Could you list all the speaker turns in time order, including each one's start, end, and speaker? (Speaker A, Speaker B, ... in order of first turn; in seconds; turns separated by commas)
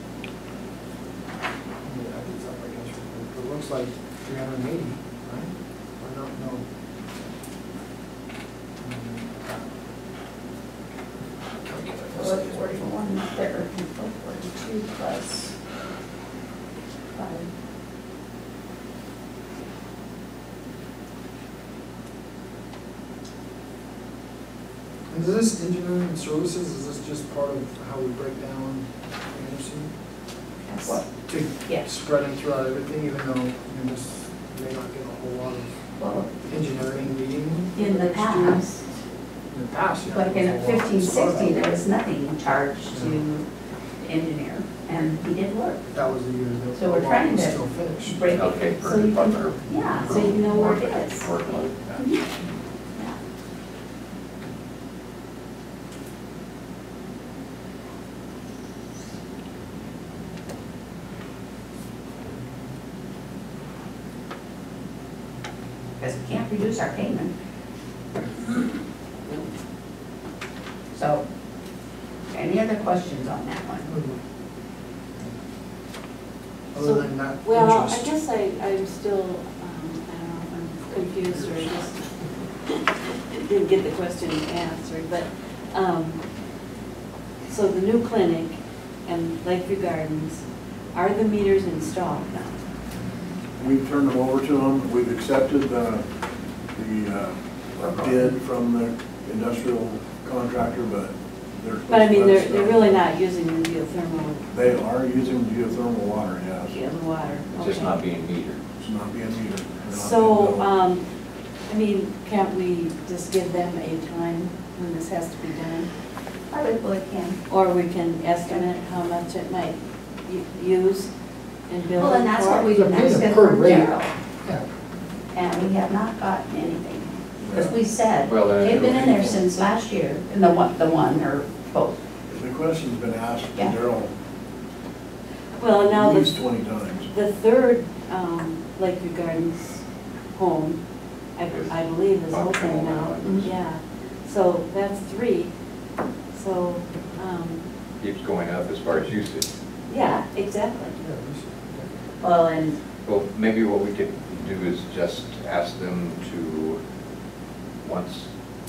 Speaker A: 1.8-6.7, Speaker A: 8.8-9.7, Speaker A: 11.6-12.7, Speaker B: 12.1-15.5, Speaker B: 17.1-17.4, Speaker A: 25.1-29.9, Speaker B: 30.6-31.1, Speaker A: 30.8-35.8, Speaker B: 36.0-36.3, Speaker A: 36.4-38.7, Speaker B: 37.8-38.9, Speaker A: 39.5-41.8, Speaker B: 40.1-43.5, Speaker A: 42.9-43.2, Speaker B: 44.0-45.9, Speaker A: 45.9-48.3, Speaker B: 46.7-51.3, Speaker C: 48.3-52.0, Speaker D: 50.1-50.5, Speaker B: 51.9-52.2, Speaker B: 66.0-67.3, Speaker B: 70.9-71.2, Speaker B: 72.3-73.9, Speaker A: 73.8-74.2, Speaker A: 76.7-78.1, Speaker D: 76.8-82.1, Speaker D: 83.3-86.2, Speaker D: 87.5-92.6, Speaker E: 93.6-96.0, Speaker E: 96.7-97.4, Speaker B: 97.8-98.3, Speaker E: 97.9-103.0, Speaker D: 101.9-104.5, Speaker E: 104.5-106.8, Speaker D: 106.7-108.0, Speaker C: 107.5-108.6, Speaker E: 108.8-110.7, Speaker D: 109.9-111.0, Speaker D: 111.7-115.9, Speaker B: 116.5-117.4, Speaker D: 117.5-121.1, Speaker D: 121.7-122.7, Speaker B: 122.0-124.1, Speaker A: 122.7-124.7, Speaker B: 125.3-132.0, Speaker E: 127.4-127.8, Speaker C: 128.2-129.3, Speaker E: 128.6-129.4, Speaker E: 132.3-134.1, Speaker D: 135.5-136.4, Speaker E: 135.7-137.1, Speaker D: 137.1-139.8, Speaker D: 140.3-140.8, Speaker D: 141.3-145.5, Speaker C: 141.4-141.8, Speaker C: 142.3-143.5, Speaker D: 146.3-147.6, Speaker C: 148.0-149.5, Speaker D: 149.9-150.9, Speaker A: 151.0-151.9, Speaker B: 152.2-152.8, Speaker C: 153.0-156.8, Speaker C: 157.8-158.3